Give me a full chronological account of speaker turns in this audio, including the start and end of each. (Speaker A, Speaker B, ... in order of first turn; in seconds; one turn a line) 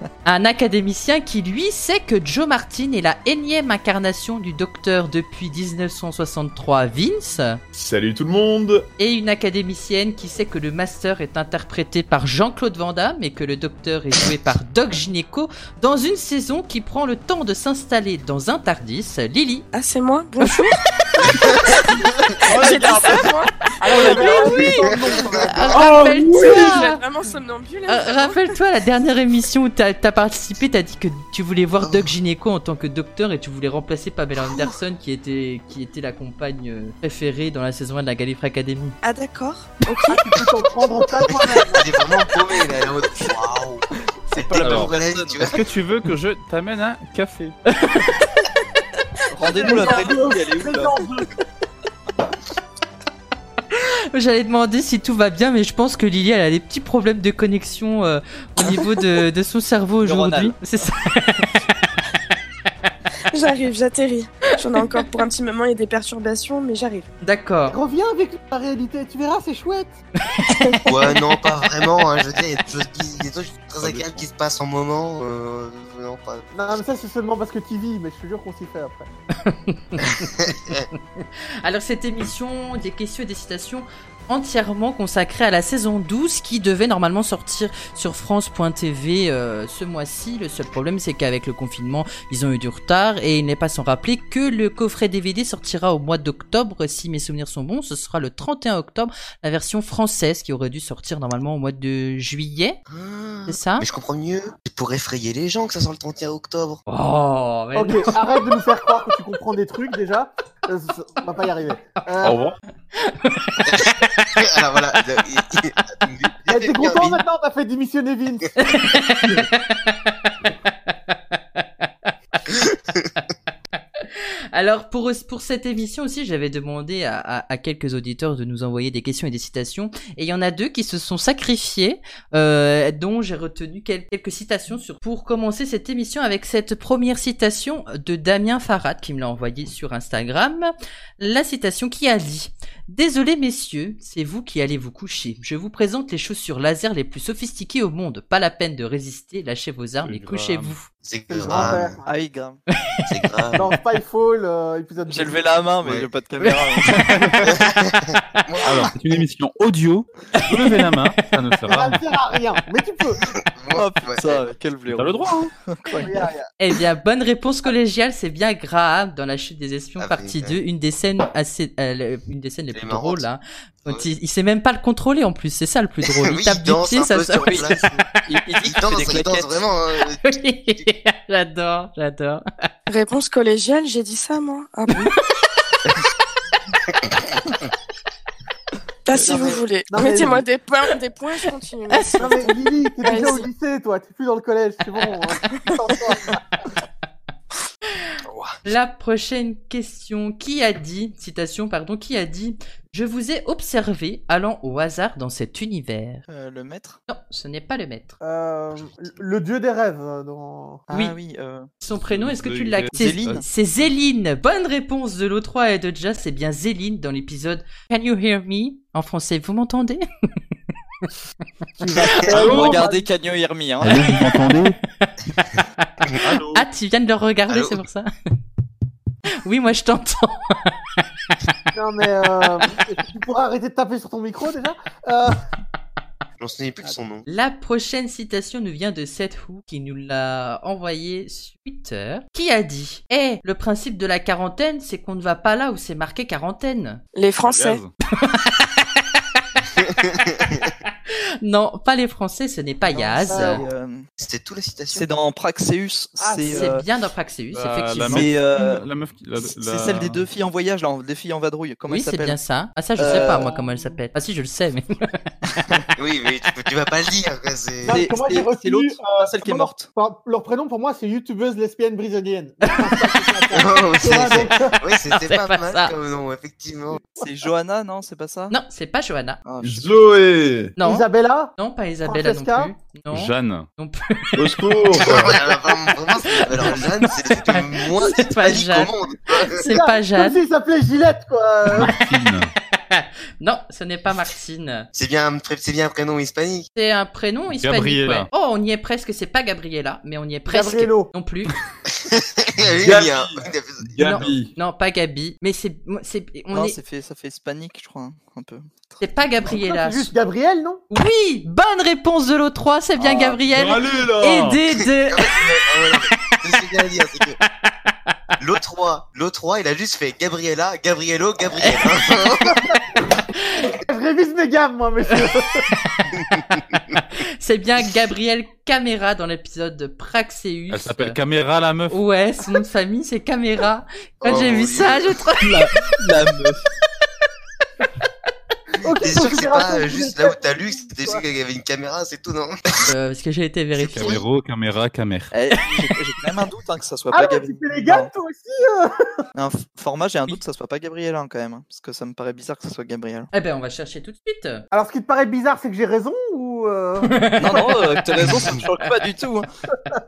Speaker A: 0.2-7.6
Speaker B: 7.7-8.9
Speaker A: 9.0-19.7
Speaker C: 19.7-20.8
Speaker C: 22.5-24.8
Speaker B: 22.5-23.3
Speaker D: 22.6-23.3
Speaker E: 23.8-25.9
Speaker A: 23.9-27.0
Speaker B: 25.7-26.8
Speaker C: 26.3-28.6
Speaker A: 27.9-39.0
Speaker F: 31.8-32.1
Speaker F: 34.4-34.7
Speaker C: 39.0-40.2
Speaker E: 40.1-42.0
Speaker F: 41.6-45.7
Speaker D: 44.3-45.5
Speaker G: 44.6-47.6
Speaker A: 47.7-48.4
Speaker D: 49.3-51.1
Speaker E: 49.5-51.3
Speaker C: 49.7-50.0
Speaker A: 53.7-61.6
Speaker D: 60.0-60.6
Speaker C: 63.3-67.1
Speaker A: 67.2-67.8
Speaker E: 67.7-70.0
Speaker C: 70.6-71.2
Speaker F: 70.8-76.4
Speaker G: 73.8-74.3
Speaker E: 76.5-79.1
Speaker A: 79.4-80.5
Speaker F: 80.0-80.9
Speaker A: 81.2-102.8
Speaker F: 102.9-106.8
Speaker A: 103.5-103.9
Speaker A: 106.9-108.5
Speaker E: 107.8-112.4
Speaker B: 112.2-112.5
Speaker A: 113.0-113.6
Speaker F: 113.6-117.2
Speaker E: 116.5-118.5
Speaker A: 118.6-120.1
Speaker F: 122.5-123.1
Speaker A: 124.0-150.9
Speaker G: 150.0-150.8
Speaker F: 151.0-152.0
Speaker E: 151.3-152.2
Speaker D: 151.5-152.6
Speaker F: 153.1-153.7
Speaker E: 153.5-155.5
Speaker D: 155.1-157.5
Speaker A: 156.4-157.6
Speaker F: 157.4-158.9
Speaker G: 158.6-162.0
Speaker A: 160.3-160.7
Speaker E: 161.7-163.2
Speaker F: 163.3-164.5
Speaker D: 163.7-166.3
Speaker G: 164.9-165.5
Speaker E: 165.9-166.5
Speaker A: 166.6-177.8
Speaker F: 170.0-170.6
Speaker F: 172.7-173.3
Speaker F: 176.1-177.9
Speaker D: 177.4-179.5
Speaker F: 178.6-180.9
Speaker A: 180.2-182.4
Speaker C: 182.9-185.1
Speaker C: 189.1-193.5
Speaker F: 189.2-189.6
Speaker E: 189.9-190.5
Speaker A: 191.9-193.4
Speaker E: 192.2-196.4
Speaker A: 198.7-206.2
Speaker D: 206.3-207.0
Speaker A: 207.1-208.2
Speaker E: 208.2-210.9
Speaker D: 210.9-211.7
Speaker A: 211.8-220.0
Speaker G: 211.9-213.4
Speaker D: 212.9-213.4
Speaker E: 221.8-223.1
Speaker F: 222.0-222.4
Speaker D: 222.3-224.1
Speaker G: 223.8-224.8
Speaker A: 226.0-228.1
Speaker F: 226.1-226.5
Speaker F: 227.5-227.8
Speaker A: 229.4-230.7
Speaker E: 231.7-235.4
Speaker F: 236.4-237.2
Speaker A: 237.3-247.0
Speaker C: 247.2-247.8
Speaker G: 247.4-247.9
Speaker A: 248.2-248.8
Speaker F: 249.8-250.6
Speaker A: 251.4-253.6
Speaker D: 252.9-254.1
Speaker E: 253.3-253.7
Speaker F: 254.2-255.1
Speaker D: 254.9-256.9
Speaker E: 256.2-256.8
Speaker A: 256.5-258.3
Speaker G: 257.5-260.3
Speaker D: 258.0-258.8
Speaker D: 259.4-262.4
Speaker A: 261.9-265.2
Speaker D: 263.0-263.5
Speaker E: 263.1-263.9
Speaker F: 266.0-268.1
Speaker E: 267.8-274.8
Speaker D: 267.9-269.9
Speaker A: 272.9-273.2
Speaker F: 273.5-277.0
Speaker A: 275.1-276.0
Speaker D: 277.2-278.5
Speaker A: 278.5-279.4
Speaker D: 279.4-279.9
Speaker B: 279.6-280.8
Speaker A: 280.8-284.4
Speaker E: 280.8-282.7
Speaker G: 283.1-283.7
Speaker B: 284.4-285.4
Speaker F: 284.9-289.6
Speaker A: 286.2-290.4
Speaker E: 289.6-292.0
Speaker G: 291.7-292.5
Speaker A: 292.9-294.9
Speaker F: 294.9-296.7
Speaker A: 296.8-301.6
Speaker G: 297.5-298.3
Speaker E: 300.5-301.1
Speaker F: 302.0-304.2
Speaker B: 302.7-304.5
Speaker A: 304.0-306.8
Speaker D: 306.5-309.0
Speaker A: 309.0-310.1
Speaker E: 309.5-310.8
Speaker A: 310.9-315.4
Speaker B: 313.0-314.6
Speaker F: 314.8-317.4
Speaker F: 318.4-322.6
Speaker A: 321.6-321.9
Speaker E: 322.5-322.8
Speaker E: 323.8-325.6
Speaker A: 325.7-326.2
Speaker F: 326.1-327.0
Speaker A: 326.7-331.2
Speaker G: 330.7-332.0
Speaker A: 331.9-335.6
Speaker F: 334.2-335.2
Speaker D: 335.4-336.6
Speaker E: 338.8-341.2
Speaker F: 339.0-342.9
Speaker A: 342.9-344.2
Speaker F: 343.8-344.2
Speaker G: 343.9-345.3
Speaker D: 345.3-348.1
Speaker E: 347.1-348.9
Speaker D: 349.4-353.3
Speaker A: 353.3-354.6
Speaker E: 354.7-357.9
Speaker A: 357.0-357.8
Speaker D: 357.4-359.5